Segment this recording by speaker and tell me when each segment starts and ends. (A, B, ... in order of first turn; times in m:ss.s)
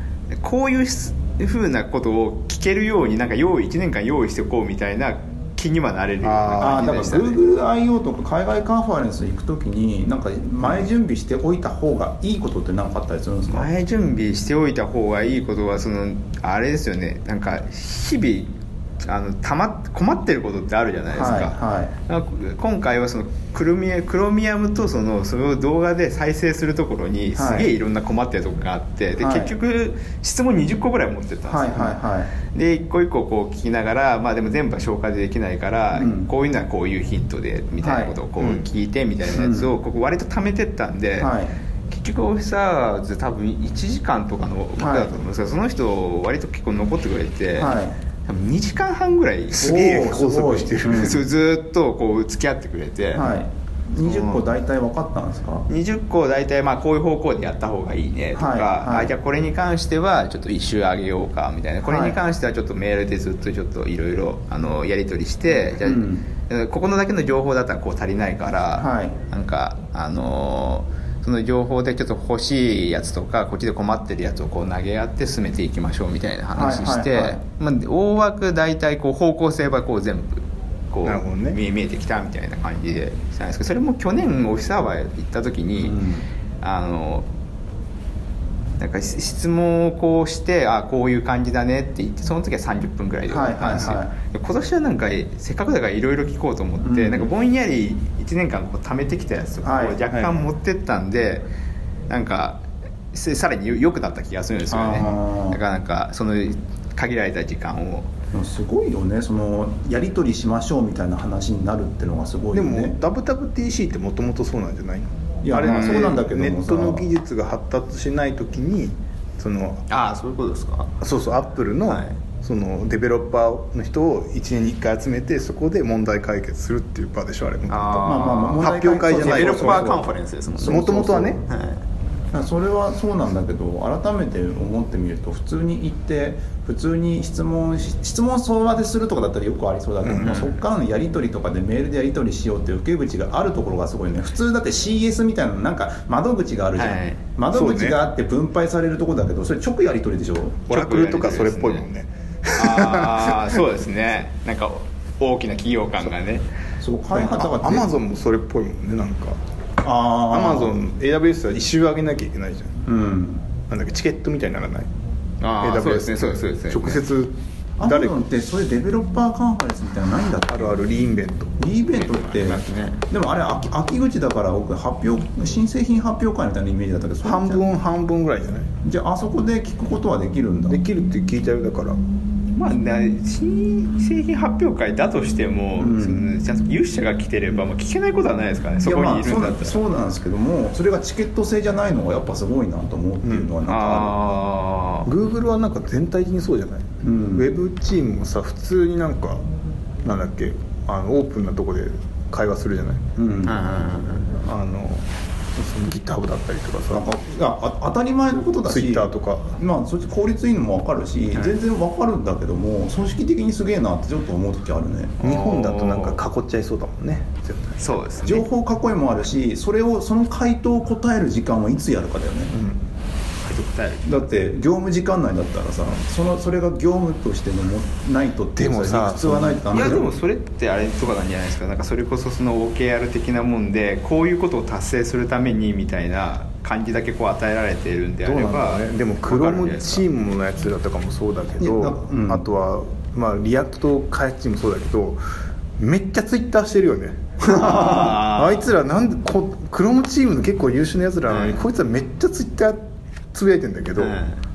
0:00.3-0:07.4 A
0:06.4-0:06.7 B
0:06.6-0:13.7 C
0:13.5-0:41.3 A
0:21.1-0:21.9 C
0:27.3-0:27.7 C
0:29.2-0:29.5 C
0:31.5-0:32.3 C
0:35.9-0:36.3 C
0:37.8-0:38.1 C
0:38.4-0:38.6 B
0:39.3-0:39.7 C
0:41.2-0:41.5 C
0:41.9-0:49.8 A
0:44.8-0:45.2 C
0:47.6-0:48.0 C
0:49.5-0:51.2 B
0:49.6-0:51.2 C
0:50.9-0:53.3 A
0:53.1-0:55.7 C
0:54.0-0:54.4 A
0:55.7-1:26.0 A
0:58.3-0:59.1 C
1:01.8-1:02.2 C
1:05.8-1:06.2 C
1:08.8-1:09.2 C
1:16.5-1:17.4 C
1:21.0-1:21.6 B
1:25.8-1:26.2 C
1:26.6-1:27.3 A
1:28.8-1:41.5 A
1:33.3-1:34.1 C
1:36.8-1:37.3 C
1:39.6-1:40.1 C
1:42.1-1:48.1 A
1:44.7-1:45.6 C
1:48.3-1:53.0 C
1:52.5-1:59.8 B
1:55.4-1:57.0 C
1:55.6-1:56.1 A
1:59.9-2:00.9 A
2:01.0-2:10.0 B
2:01.8-2:02.2 A
2:07.7-2:11.8 A
2:08.0-2:10.0 C
2:10.6-2:11.4 C
2:10.6-2:11.4 B
2:12.3-2:30.7 C
2:20.0-2:20.5 B
2:20.2-2:20.5 A
2:26.8-2:27.2 A
2:27.5-2:28.0 B
2:30.7-2:33.6 B
2:30.7-2:31.8 A
2:32.6-2:36.5 A
2:36.8-2:37.9 C
2:37.1-2:39.4 B
2:39.8-2:40.8 C
2:40.3-2:42.8 B
2:42.8-2:43.4 C
2:43.7-2:44.9 B
2:45.4-2:47.0 A
2:45.6-2:48.1 B
2:47.8-2:50.8 C
2:50.5-2:51.6 B
2:51.6-2:57.7 C
2:51.9-2:53.0 A
2:57.2-2:58.7 B
2:58.8-3:00.8 C
3:00.7-3:02.0 B
3:02.5-3:09.8 A
3:05.8-3:06.3 C
3:08.8-3:14.2 C
3:13.2-3:13.5 B
3:13.6-3:15.1 A
3:15.0-3:19.4 B
3:17.0-3:17.5 C
3:20.0-3:23.0 B
3:23.2-3:23.6 C
3:23.4-3:24.3 A
3:24.3-3:27.1 B
3:26.9-3:35.2 C
3:28.6-3:29.6 B
3:35.2-3:37.8 B
3:35.2-3:36.2 A
3:37.8-3:38.5 A
3:38.2-3:42.5 C
3:42.5-3:42.8 B
3:43.4-3:44.3 A
3:44.0-3:50.1 C
3:48.6-3:50.0 B
3:49.7-4:00.0 A
3:58.2-4:05.2 B
4:01.6-4:02.4 C
4:05.8-4:14.2 B
4:07.4-4:08.7 A
4:11.3-4:11.6 A
4:14.0-4:14.4 A